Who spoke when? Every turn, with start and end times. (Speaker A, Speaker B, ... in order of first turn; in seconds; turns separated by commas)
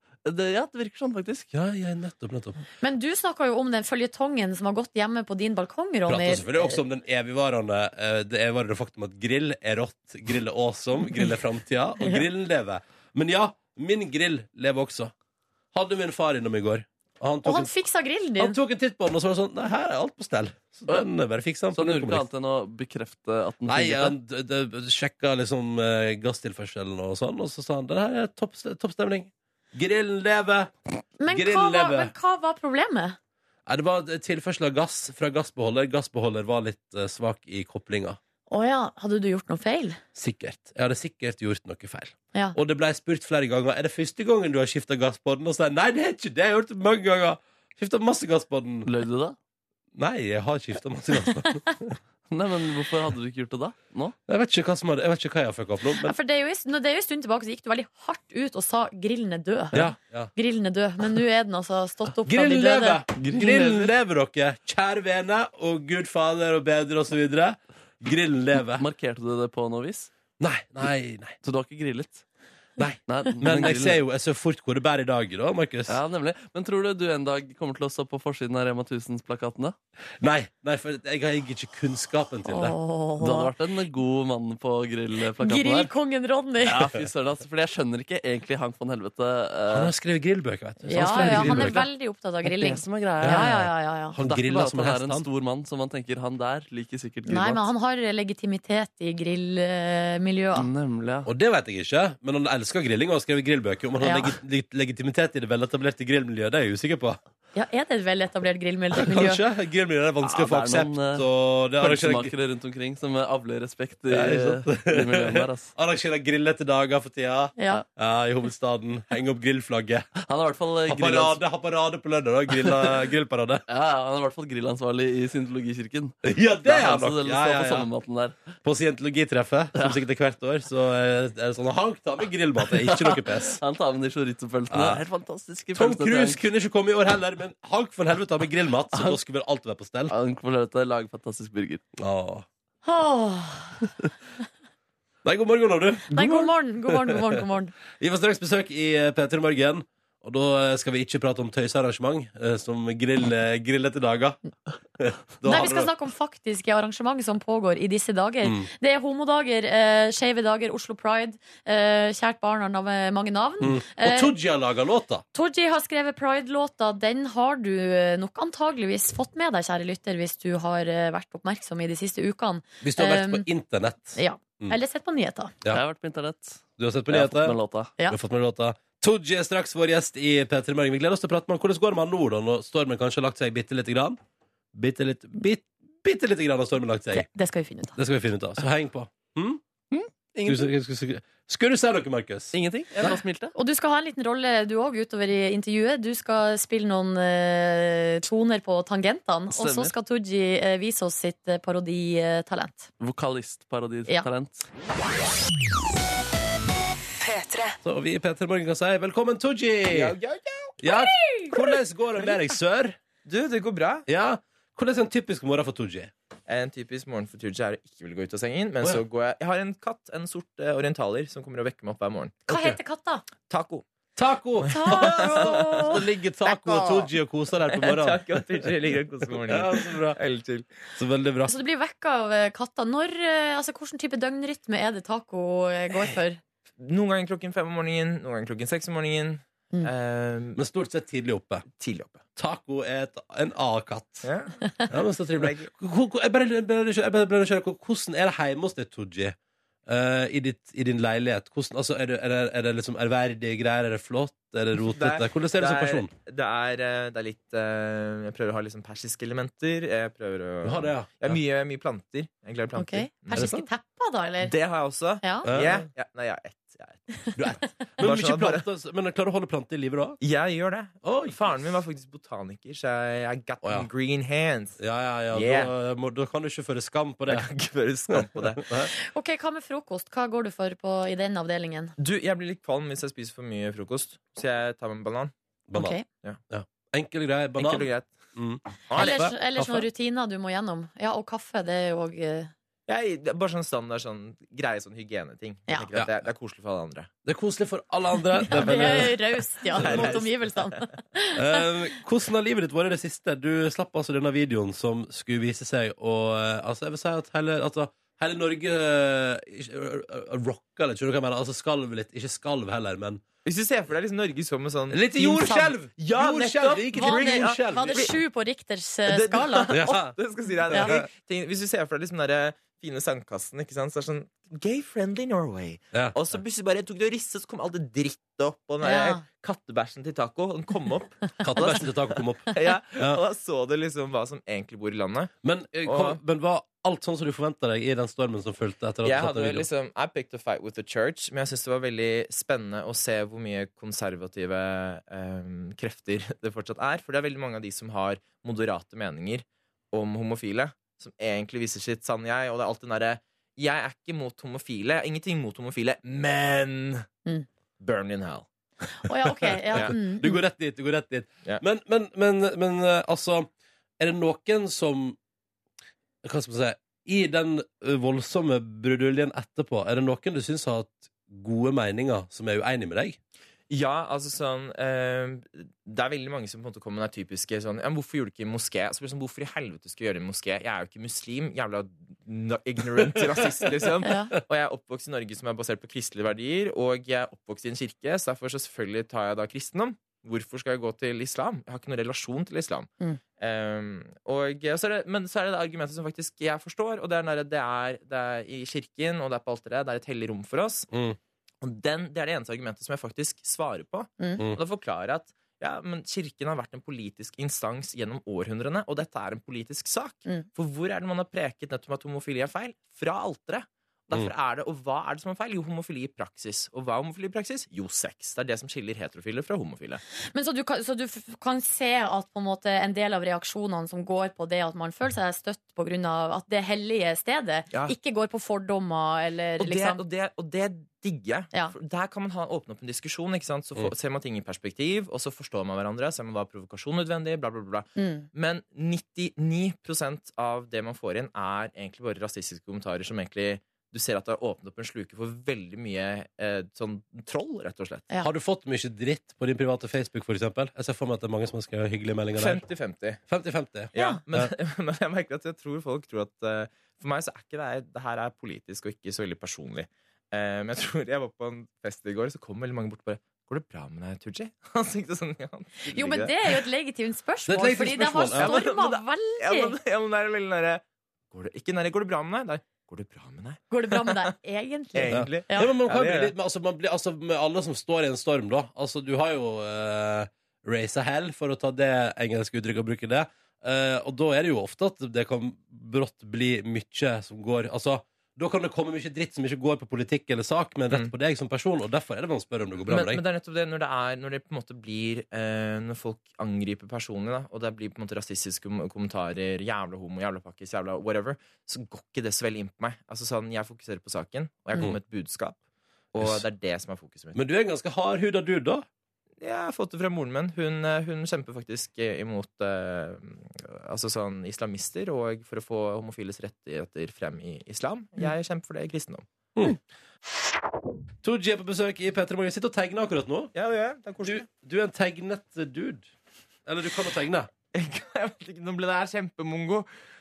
Speaker A: 0.2-1.5, Speaker B: 1.5-2.6, Speaker C: 2.8-6.8, Speaker B: 6.1-15.1, Speaker B: 15.7-17.7, Speaker C: 17.4-18.6, Speaker B: 18.4-22.2, Speaker A: 21.7-24.1, Speaker B: 23.7-30.7, Speaker C: 31.2-33.2, Speaker B: 31.3-32.1, Speaker B: 33.7-38.2, Speaker C: 38.5-40.0, Speaker B: 40.1-48.9, Speaker A: 48.9-49.4, Speaker B: 49.9-52.0, Speaker A: 52.3-54.1, Speaker B: 54.3-56.1, Speaker C: 56.0-63.0, Speaker B: 59.7-60.3, Speaker B: 62.3-68.8, Speaker A: 63.2-63.9, Speaker A: 68.8-70.1, Speaker B: 70.4-71.4, Speaker A: 71.4-72.2, Speaker B: 72.8-76.0, Speaker A: 73.1-74.0, Speaker A: 75.9-79.8, Speaker B: 80.2-82.8, Speaker C: 82.5-83.5, Speaker A: 83.2-85.9, Speaker C: 85.4-86.9, Speaker A: 86.6-89.9, Speaker B: 89.7-91.8, Speaker A: 90.8-91.9, Speaker C: 90.9-94.2, Speaker A: 92.4-97.7, Speaker B: 93.2-95.2, Speaker C: 97.3-100.7, Speaker A: 100.5-101.3, Speaker B: 101.2-107.2, Speaker C: 104.0-104.3, Speaker C: 107.5-109.4, Speaker B: 109.0-112.3, Speaker A: 110.2-111.2, Speaker A: 111.8-115.7, Speaker B: 114.1-120.1, Speaker C: 117.6-117.8, Speaker A: 120.2-121.4, Speaker B: 120.9-123.6, Speaker A: 123.7-128.3, Speaker B: 126.2-127.9, Speaker B: 128.6-133.6, Speaker A: 132.8-136.4, Speaker B: 134.7-135.0, Speaker B: 135.7-140.1, Speaker A: 140.1-141.8, Speaker B: 142.0-142.4, Speaker C: 142.8-143.8, Speaker B: 145.2-147.4, Speaker C: 146.1-147.7, Speaker B: 148.0-154.4, Speaker B: 155.0-155.9, Speaker C: 155.4-164.3, Speaker B: 158.4-158.7, Speaker B: 163.6-165.2, Speaker C: 165.3-173.5, Speaker B: 172.8-174.8, Speaker C: 174.2-175.5, Speaker A: 175.7-177.9, Speaker B: 176.8-184.2, Speaker B: 184.7-187.3, Speaker C: 187.1-187.9, Speaker B: 187.9-189.6, Speaker A: 189.9-190.7, Speaker B: 190.4-193.2, Speaker A: 192.5-193.5, Speaker C: 193.5-202.9, Speaker A: 199.5-199.9, Speaker A: 203.0-204.7, Speaker B: 207.8-210.2, Speaker D: 209.9-210.8, Speaker B: 210.8-213.0, Speaker D: 213.2-214.1, Speaker B: 214.1-216.1, Speaker D: 216.5-222.7, Speaker C: 222.5-223.2, Speaker D: 223.5-223.8, Speaker B: 224.2-228.7, Speaker D: 224.6-225.9, Speaker C: 224.7-226.0, Speaker D: 226.4-227.1, Speaker D: 227.7-230.7, Speaker B: 229.3-230.2, Speaker B: 230.9-231.5, Speaker C: 231.5-236.4, Speaker D: 236.8-240.6, Speaker B: 240.5-241.7, Speaker D: 241.7-242.2, Speaker B: 242.3-244.3, Speaker D: 244.2-244.7, Speaker B: 244.9-256.1, Speaker D: 245.3-245.7, Speaker D: 254.8-263.6, Speaker B: 260.6-261.4, Speaker C: 262.8-264.5, Speaker B: 263.3-263.7, Speaker D: 264.4-267.1, Speaker C: 265.2-265.5, Speaker B: 265.4-265.9, Speaker B: 267.4-270.2, Speaker D: 268.0-268.6, Speaker D: 270.2-274.8, Speaker B: 271.0-271.4, Speaker B: 273.6-273.9, Speaker B: 274.8-277.5, Speaker D: 275.3-275.7, Speaker D: 277.3-278.6, Speaker B: 278.1-278.9, Speaker C: 278.9-281.9, Speaker D: 282.0-285.3, Speaker B: 285.7-289.9, Speaker C: 285.7-286.1, Speaker D: 286.1-286.4, Speaker D: 287.6-288.1, Speaker D: 288.9-289.3, Speaker C: 288.9-292.5, Speaker D: 292.9-297.1, Speaker B: 295.9-296.2, Speaker B: 297.2-300.2, Speaker C: 298.4-301.6, Speaker D: 299.7-300.8, Speaker B: 301.3-313.2, Speaker D: 313.4-318.1, Speaker B: 314.9-318.1, Speaker C: 316.9-320.1, Speaker D: 319.1-331.9, Speaker B: 319.7-320.1, Speaker B: 320.7-321.1, Speaker B: 325.9-326.2, Speaker C: 328.8-329.2, Speaker B: 331.4-333.2, Speaker D: 332.5-335.3, Speaker B: 335.4-339.7, Speaker D: 335.9-336.2, Speaker D: 339.0-357.1, Speaker D: 357.8-358.4, Speaker C: 359.0-360.4, Speaker B: 359.3-363.5, Speaker B: 364.0-365.2, Speaker B: 366.2-373.2, Speaker D: 373.7-400.9, Speaker C: 384.0-384.3, Speaker B: 400.9-401.2, Speaker D: 401.6-420.0, Speaker C: 420.3-430.0, Speaker D: 429.6-448.1, Speaker C: 437.9-438.3, Speaker B: 448.2-452.6, Speaker D: 452.4-453.2, Speaker B: 453.2-454.5, Speaker D: 453.9-466.6, Speaker C: 453.9-454.2, Speaker C: 465.9-469.7, Speaker B: 467.5-468.6, Speaker D: 468.3-474.3, Speaker C: 473.7-475.7, Speaker D: 474.9-476.3, Speaker B: 475.1-493.2, Speaker D: 492.9-505.6, Speaker D: 506.1-507.4, Speaker B: 506.2-506.4, Speaker B: 507.3-508.9, Speaker D: 509.4-519.2, Speaker B: 521.2-523.5, Speaker D: 523.5-524.5, Speaker B: 524.2-526.1, Speaker B: 526.6-527.5, Speaker D: 527.7-529.9